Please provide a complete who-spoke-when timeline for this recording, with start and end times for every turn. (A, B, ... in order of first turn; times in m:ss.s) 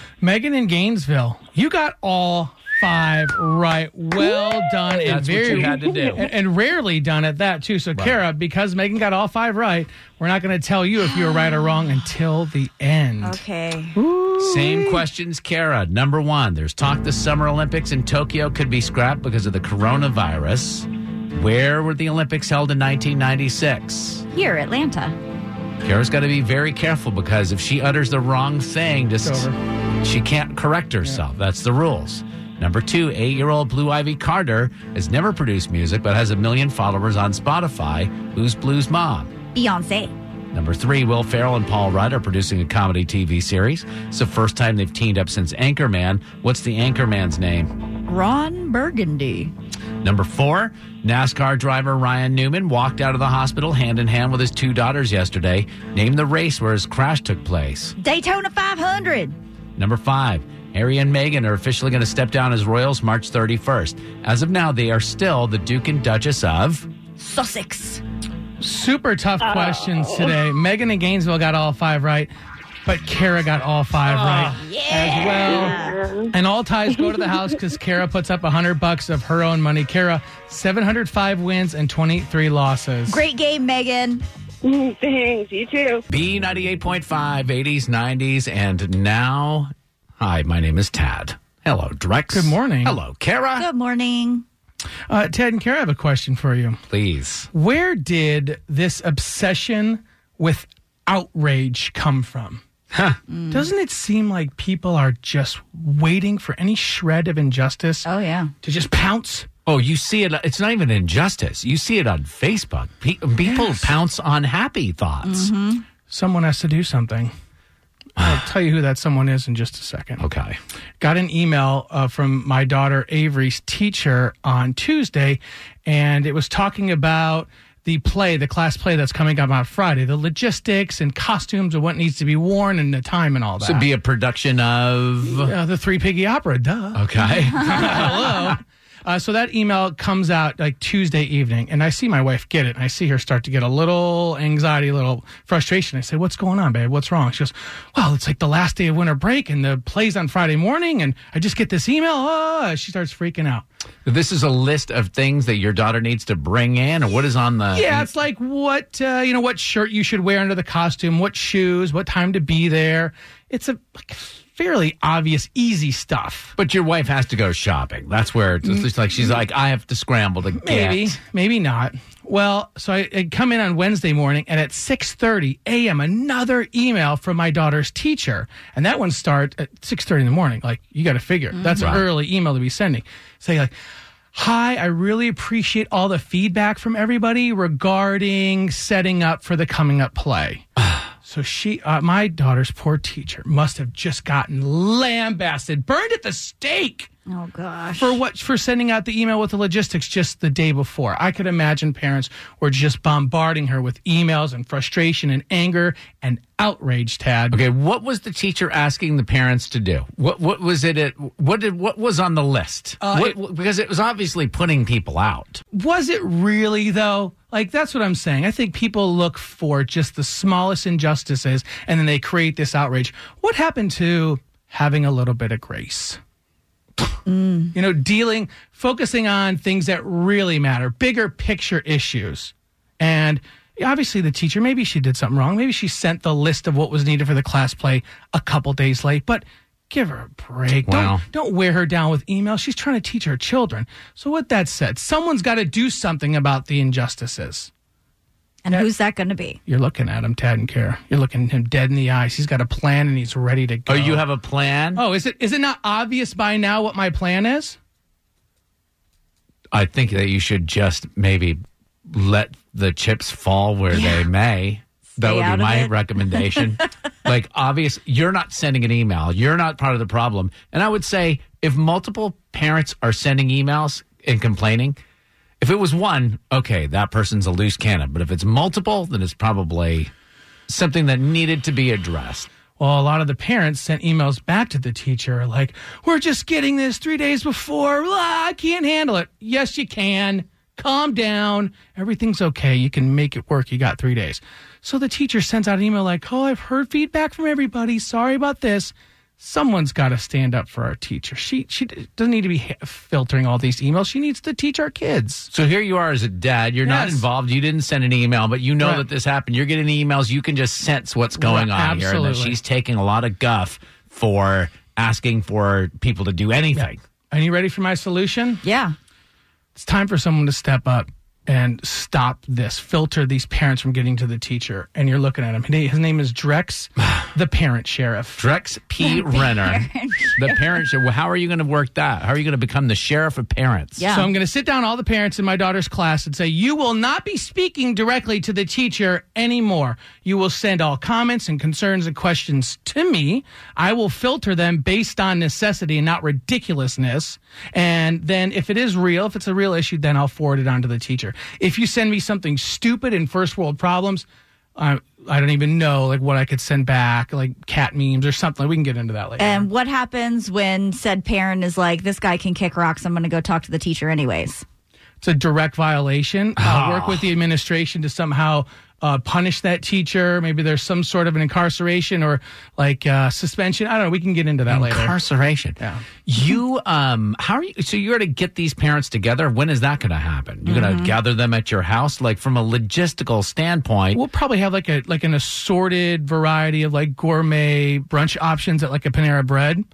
0:00.2-0:13.4 A
0:05.0-0:06.3 B
0:11.1-0:11.7 C
0:13.2-0:14.0 C
0:14.0-0:15.0 A
0:14.4-0:24.2 B
0:24.3-0:25.2 C
0:25.8-0:29.5 B
0:29.2-0:29.5 A
0:30.0-0:39.3 B
0:39.5-0:40.1 C
0:40.5-0:47.7 B
0:48.1-0:49.5 C
0:50.0-0:57.9 B
0:58.0-0:59.4 C
0:59.8-1:06.9 B
1:07.2-1:08.0 C
1:08.6-1:12.3 A
1:09.5-1:10.4 D
1:12.9-1:15.7 A
1:14.1-1:14.6 B
1:14.5-1:16.0 C
1:15.4-1:16.3 D
1:16.3-1:23.2 A
1:23.1-1:24.2 C
1:24.6-1:26.0 D
1:26.1-1:33.6 B
1:32.3-1:33.0 A
1:33.6-1:34.4 C
1:35.1-1:36.8 A
1:36.9-1:37.5 B
1:37.5-1:42.6 A
1:42.9-1:43.2 B
1:43.3-1:43.7 C
1:43.5-1:48.1 A
1:48.0-1:48.5 C
1:48.6-1:49.5 A
1:49.6-1:55.5 B
1:53.4-1:53.9 A
1:55.2-1:55.8 C
1:56.1-1:57.3 A
1:58.2-2:00.2 A
2:00.2-2:00.6 B
2:01.0-2:13.8 A
2:13.6-2:15.5 B
2:15.3-2:33.6 A
2:16.9-2:18.5 B
2:34.0-2:38.1 B
2:37.7-2:46.5 A
2:46.6-2:51.2 B
2:50.6-3:03.7 A
3:01.7-3:02.1 B
3:04.3-3:10.6 A
3:11.2-3:17.1 A
3:17.3-3:18.2 C
3:18.0-3:27.6 A
3:27.5-3:35.6 B
3:33.0-3:33.3 A
3:35.7-3:46.2 A
3:47.2-3:47.7 C
3:47.7-4:07.7 A
4:00.9-4:01.2 B
4:08.6-4:09.6 C
4:09.7-4:14.2 A
4:13.9-4:15.0 B
4:14.9-4:17.8 A
4:19.7-4:35.0 B
4:23.9-4:24.3 C
4:25.2-4:26.7 C
4:35.6-4:40.1 B
4:40.7-4:42.5 B
4:42.8-5:05.5 A
5:05.5-5:17.0 B
5:06.8-5:07.2 A
5:11.4-5:12.6 A
5:17.3-5:18.6 A
5:18.6-5:18.9 C
5:19.8-5:28.4 A
5:28.4-5:34.0 B
5:29.0-5:30.7 C
5:34.0-5:34.3 C
5:34.1-5:54.2 A
5:54.8-5:59.7 A
5:59.4-6:04.6 C
6:05.2-6:15.2 A
6:06.6-6:07.3 B
6:14.7-6:24.2 B
6:20.7-6:21.1 C
6:24.1-6:29.8 A